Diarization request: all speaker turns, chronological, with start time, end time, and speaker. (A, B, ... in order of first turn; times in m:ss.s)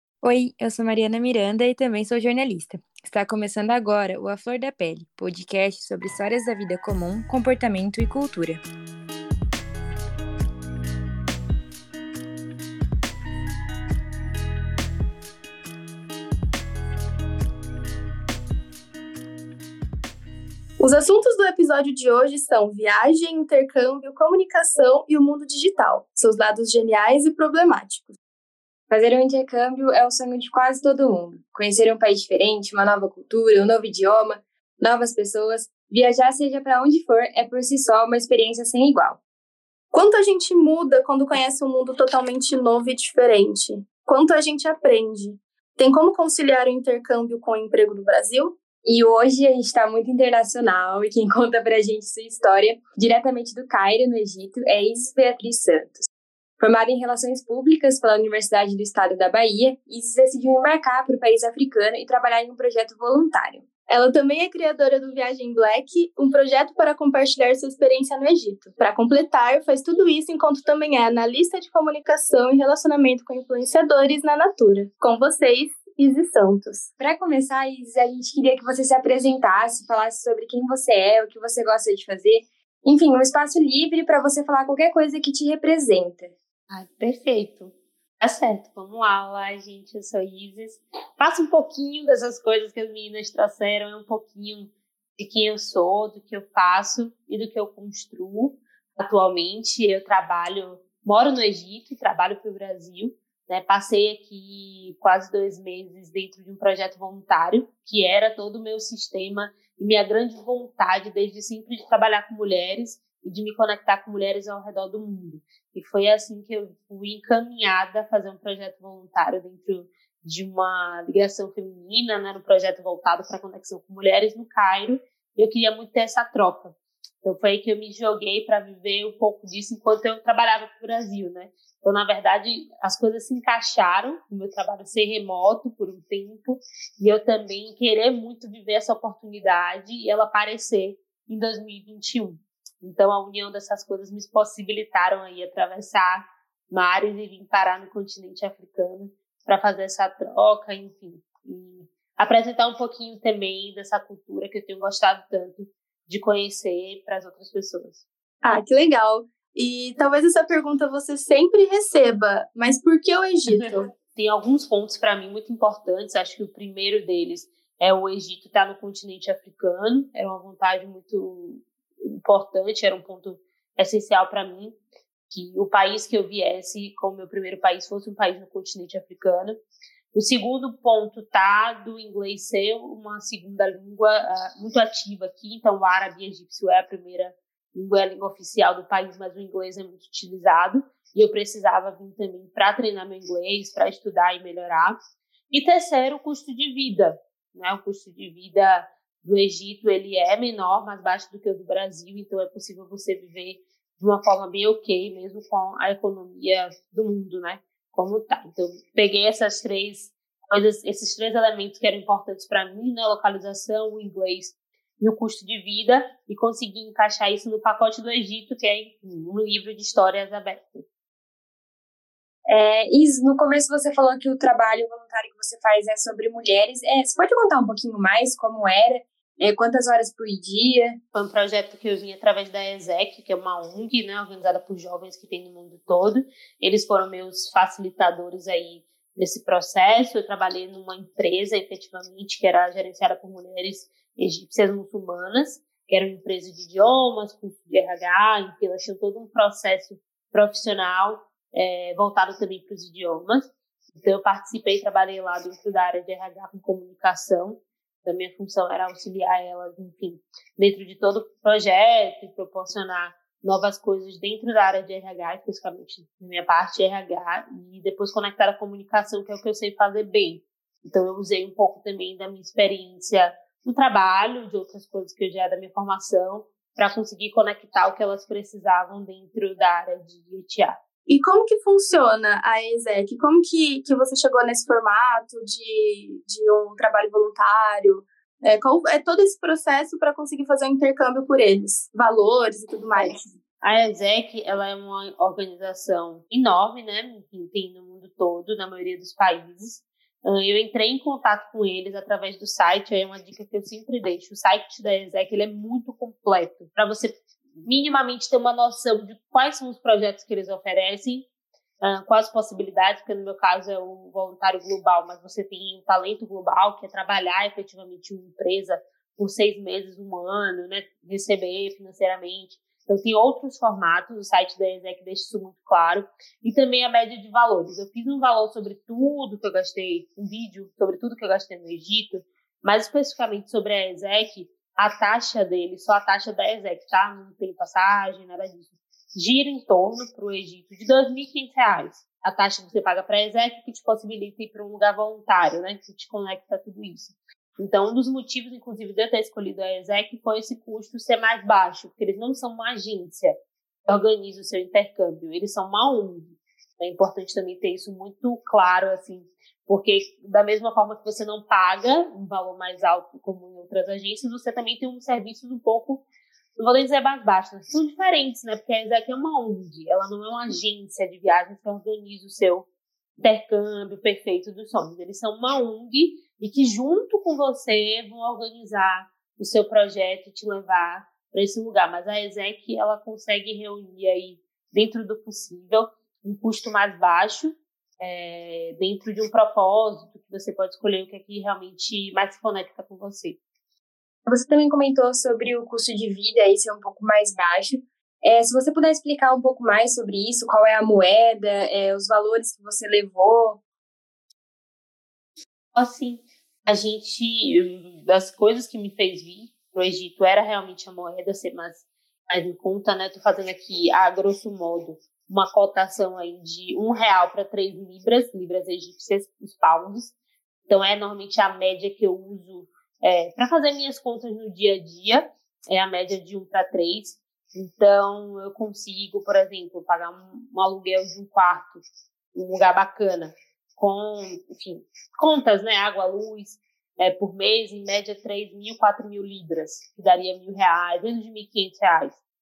0:00.2-0:08.6 A
0:20.8-0:28.1 B
0:28.9-0:39.2 A
0:39.9-0:48.6 B
0:48.8-0:56.1 A
0:56.6-1:03.6 A
1:03.9-1:16.9 B
1:17.0-1:26.3 A
1:26.7-2:38.0 C
2:38.4-2:43.9 B
2:43.5-2:54.8 C
2:55.3-2:59.6 C
3:00.1-3:15.0 C
3:15.5-3:40.8 C
3:42.5-3:51.0 A
3:51.1-4:40.8 C
4:41.1-4:53.3 B
4:53.0-5:11.3 C
5:11.8-6:06.0 C
6:06.6-6:12.6 C
6:13.2-6:33.4 C
6:34.2-6:43.6 A
6:45.7-7:00.1 C
7:00.7-7:11.8 C
7:12.3-7:22.2 C